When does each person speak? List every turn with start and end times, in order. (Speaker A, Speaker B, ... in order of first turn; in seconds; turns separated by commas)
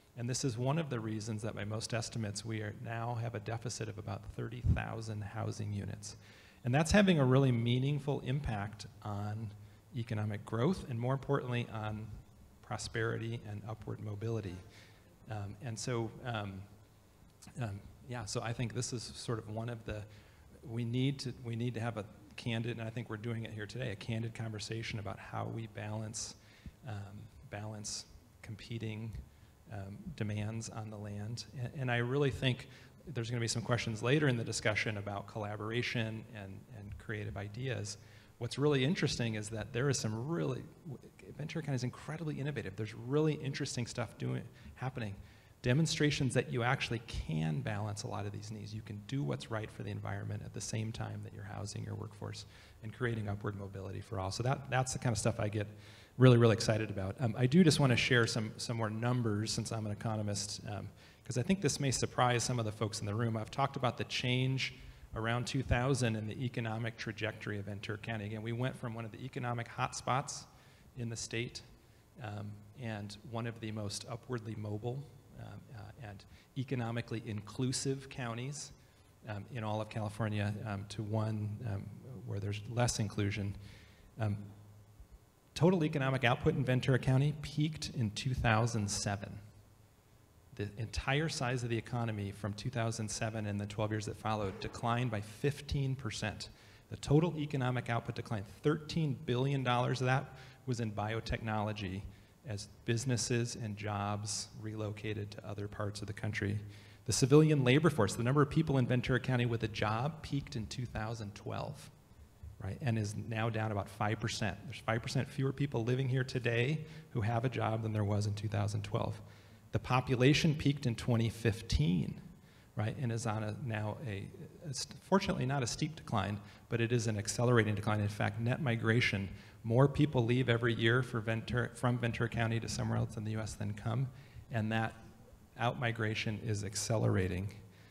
Speaker A: 0.1-14.6, Speaker A: 15.3-16.6, Speaker A: 17.6-20.1, Speaker A: 20.6-71.6, Speaker A: 72.2-78.7, Speaker A: 79.2-83.6, Speaker A: 84.2-84.5, Speaker A: 85.5-89.4, Speaker A: 90.5-111.9, Speaker A: 112.6-122.2, Speaker A: 122.8-135.0, Speaker A: 135.6-137.6